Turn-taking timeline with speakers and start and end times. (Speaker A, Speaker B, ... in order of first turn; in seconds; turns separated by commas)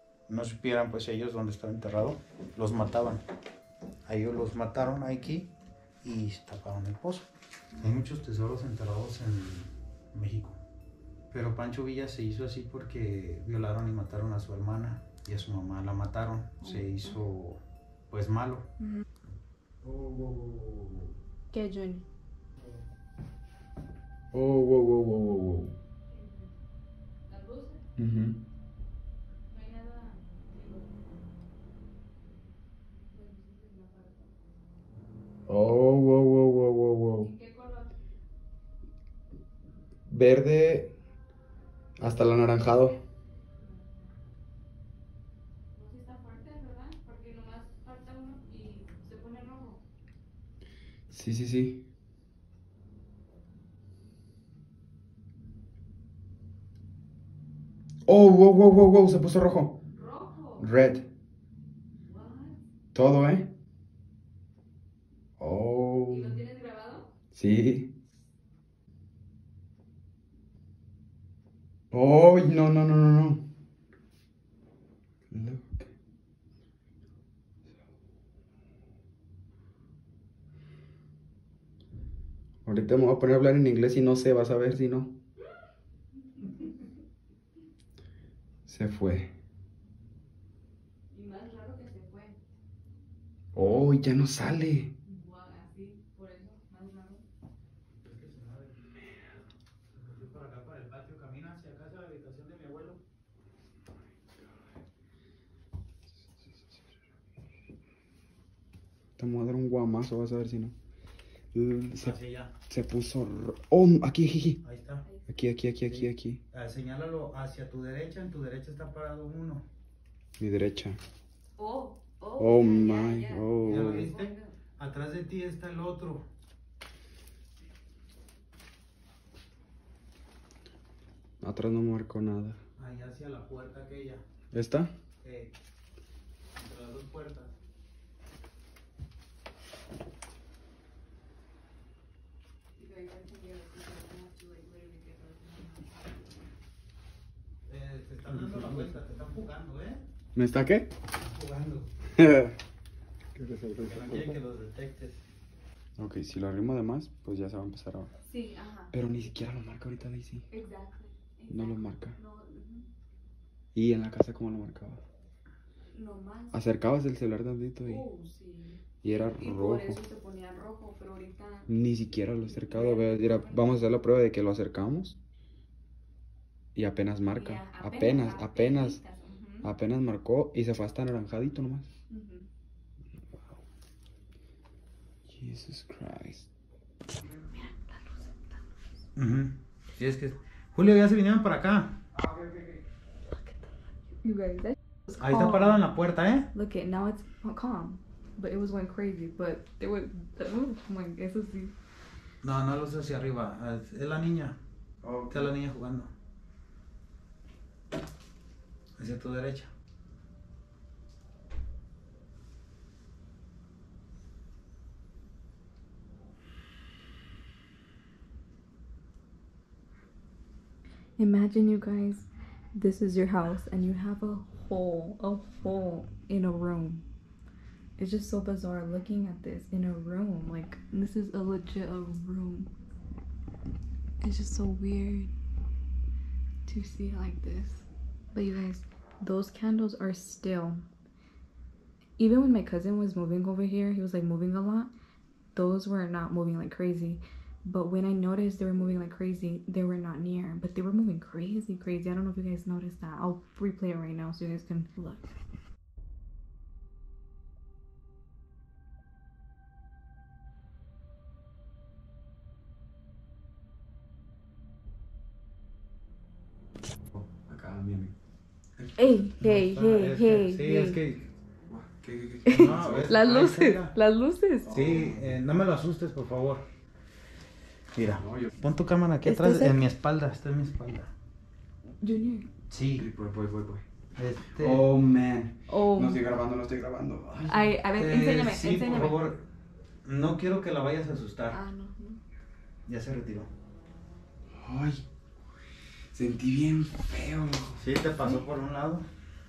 Speaker A: 0.3-3.2, Speaker A: 4.0-5.5, Speaker A: 6.0-7.3, Speaker A: 7.8-10.6, Speaker A: 11.3-18.7, Speaker B: 16.6-17.1, Speaker C: 19.8-21.1, Speaker B: 21.5-22.0, Speaker C: 24.3-25.7, Speaker B: 26.1-26.4, Speaker B: 27.3-27.8, Speaker C: 28.0-28.4, Speaker B: 29.5-30.9, Speaker B: 33.0-34.2, Speaker C: 35.5-37.3, Speaker B: 37.2-37.9, Speaker C: 40.1-40.9, Speaker C: 42.0-43.0, Speaker B: 45.7-49.8, Speaker C: 51.1-51.8, Speaker C: 58.0-59.8, Speaker B: 59.9-60.6, Speaker C: 60.6-61.1, Speaker B: 62.1-62.6, Speaker C: 62.9-63.5, Speaker C: 65.4-66.5, Speaker B: 66.1-67.1, Speaker C: 67.3-67.9, Speaker C: 71.9-73.5, Speaker C: 75.3-75.9, Speaker C: 82.6-85.2, Speaker C: 88.7-89.3, Speaker B: 91.1-92.4, Speaker C: 93.5-94.9, Speaker B: 95.1-97.2, Speaker A: 98.0-98.8, Speaker A: 99.9-103.0, Speaker C: 109.2-110.7, Speaker C: 111.5-112.2, Speaker A: 112.0-112.5, Speaker C: 112.7-114.6, Speaker A: 114.6-115.0, Speaker B: 115.0-115.3, Speaker C: 115.3-116.4, Speaker A: 115.8-119.7, Speaker C: 120.4-121.0, Speaker B: 121.6-124.5, Speaker C: 122.4-124.1, Speaker A: 123.6-126.3, Speaker C: 131.4-132.6, Speaker A: 132.8-134.2, Speaker C: 134.5-134.9, Speaker A: 135.2-135.6, Speaker A: 136.6-137.5, Speaker B: 142.8-145.9, Speaker A: 147.7-150.0, Speaker C: 150.3-150.9, Speaker A: 151.1-151.9, Speaker C: 152.2-152.6, Speaker C: 153.4-154.1, Speaker A: 153.7-155.2, Speaker C: 156.0-158.1, Speaker B: 158.2-158.9, Speaker C: 158.9-160.4, Speaker B: 160.5-162.9, Speaker C: 161.5-162.2, Speaker C: 163.7-165.0, Speaker B: 165.9-166.7, Speaker C: 166.5-168.0, Speaker B: 167.8-168.8, Speaker C: 169.0-170.0, Speaker B: 169.3-171.7, Speaker C: 171.7-175.2, Speaker B: 172.5-173.8, Speaker C: 176.7-179.0, Speaker B: 177.3-179.7, Speaker C: 179.6-181.9, Speaker B: 182.1-182.5, Speaker C: 185.3-186.5, Speaker B: 187.3-188.6, Speaker A: 189.2-192.0, Speaker B: 193.3-193.7, Speaker B: 194.2-194.8, Speaker A: 195.2-196.5, Speaker B: 196.5-201.7, Speaker A: 202.4-204.6, Speaker C: 205.0-205.5, Speaker A: 205.3-206.1, Speaker A: 209.0-209.7, Speaker B: 221.2-227.0, Speaker B: 228.0-232.7, Speaker B: 234.2-235.3, Speaker B: 236.7-240.8, Speaker B: 242.2-244.9, Speaker B: 245.5-255.3, Speaker C: 267.1-268.1, Speaker B: 269.0-271.0, Speaker A: 269.4-271.3, Speaker C: 271.7-273.2, Speaker A: 272.4-273.9, Speaker B: 272.5-274.7, Speaker C: 274.6-275.4, Speaker A: 274.7-276.6, Speaker A: 277.9-281.1, Speaker C: 278.1-278.5, Speaker B: 279.2-279.8, Speaker B: 282.0-282.5, Speaker A: 282.7-283.1, Speaker C: 282.9-283.8, Speaker A: 284.1-284.9, Speaker C: 284.5-287.7, Speaker B: 285.7-286.2, Speaker B: 287.5-289.3, Speaker A: 287.9-289.4, Speaker A: 290.0-291.6, Speaker B: 291.5-292.2, Speaker A: 292.9-293.5, Speaker C: 294.5-295.0, Speaker C: 296.1-297.8, Speaker A: 297.8-299.1